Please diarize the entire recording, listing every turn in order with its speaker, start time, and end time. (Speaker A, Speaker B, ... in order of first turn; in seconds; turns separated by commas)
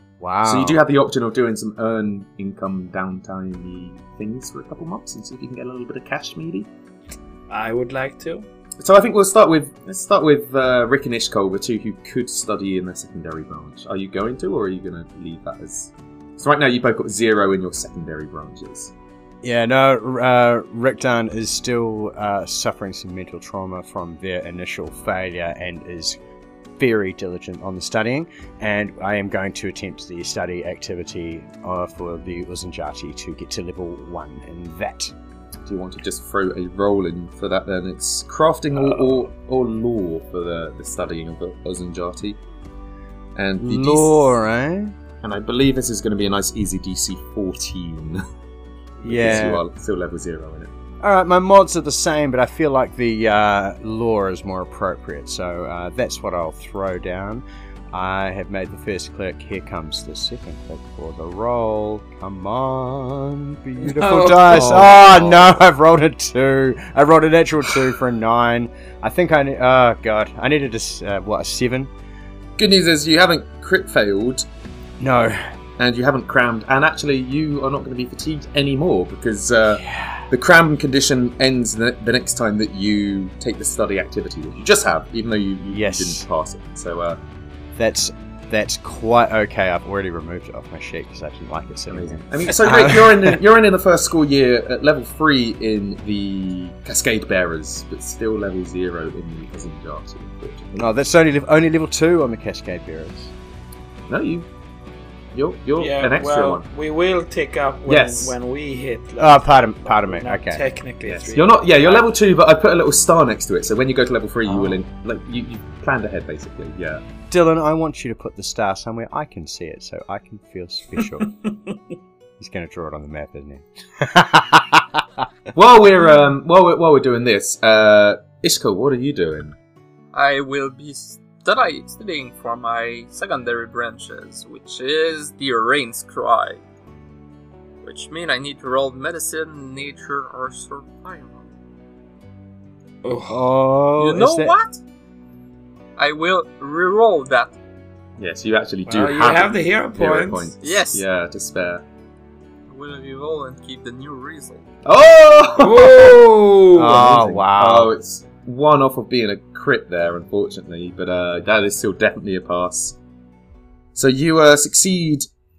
Speaker A: 0.2-0.8, Speaker B: 0.4-6.7, Speaker C: 7.5-8.5, Speaker B: 8.8-18.9, Speaker A: 19.4-26.2, Speaker A: 26.8-35.1, Speaker B: 35.6-42.4, Speaker B: 43.3-44.3, Speaker A: 43.6-44.9, Speaker B: 45.2-48.2, Speaker B: 49.0-50.7, Speaker A: 49.0-49.6, Speaker A: 51.0-71.9, Speaker C: 63.8-64.8, Speaker B: 64.3-65.5, Speaker B: 72.6-74.4, Speaker A: 75.0-75.4, Speaker B: 75.8-87.2, Speaker A: 79.8-80.2, Speaker A: 85.7-86.2, Speaker A: 87.8-93.4, Speaker B: 91.9-100.9, Speaker A: 100.8-103.3, Speaker B: 104.1-104.5, Speaker B: 105.3-106.7, Speaker C: 105.8-112.1, Speaker B: 107.8-108.3, Speaker A: 109.2-110.6, Speaker B: 111.0-117.0, Speaker A: 117.3-121.3, Speaker A: 122.4-125.0, Speaker B: 125.5-129.5, Speaker D: 130.1-136.6, Speaker D: 137.8-141.5, Speaker C: 143.0-143.4, Speaker A: 143.3-144.5, Speaker D: 144.0-144.8, Speaker D: 146.0-147.5, Speaker B: 148.2-151.8, Speaker C: 148.9-150.5, Speaker D: 150.6-151.0, Speaker D: 152.7-154.7, Speaker B: 154.8-156.2, Speaker C: 155.6-157.1, Speaker A: 156.7-157.9, Speaker B: 156.9-163.0, Speaker B: 163.9-165.3